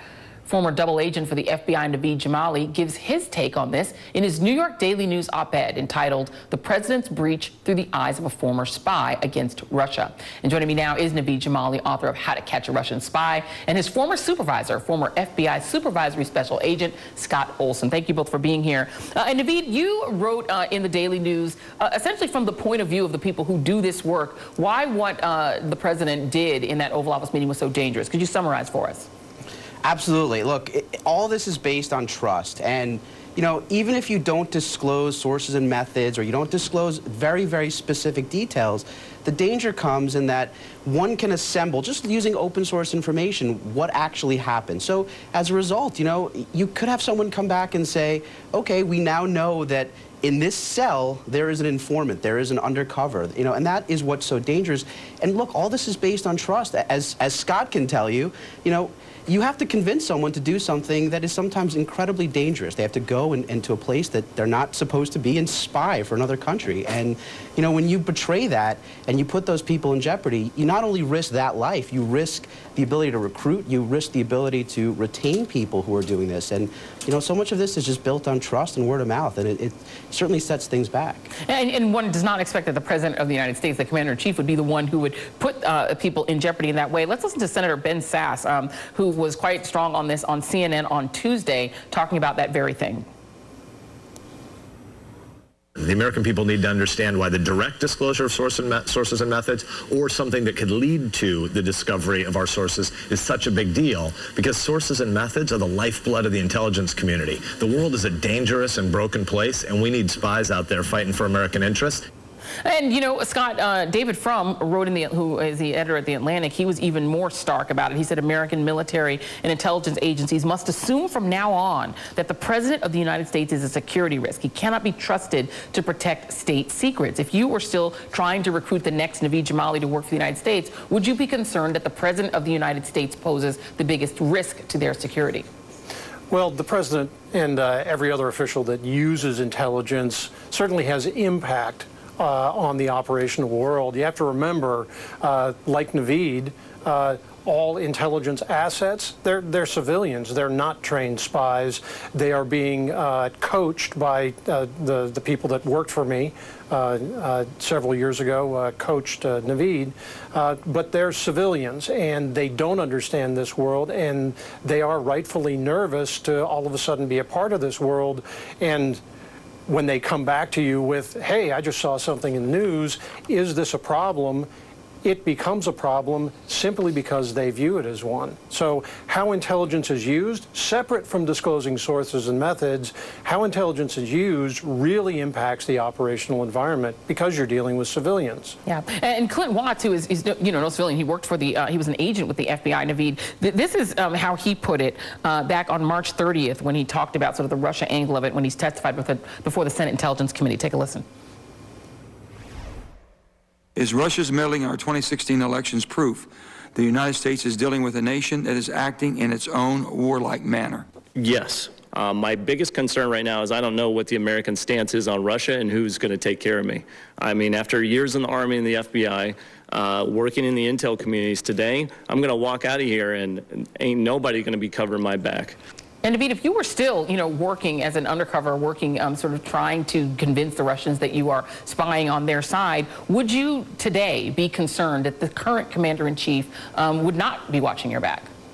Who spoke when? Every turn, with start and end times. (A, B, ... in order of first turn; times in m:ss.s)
0:00.4-0:29.1 A
0:29.8-1:21.3 B
1:21.4-1:33.0 A
1:35.8-1:52.0 C
1:52.6-2:15.4 A
2:16.3-2:49.0 D
2:49.7-2:54.5 D
2:55.0-3:08.6 D
3:08.6-3:21.0 A
3:23.8-3:30.8 E
3:31.1-3:45.6 F
3:46.0-3:58.3 A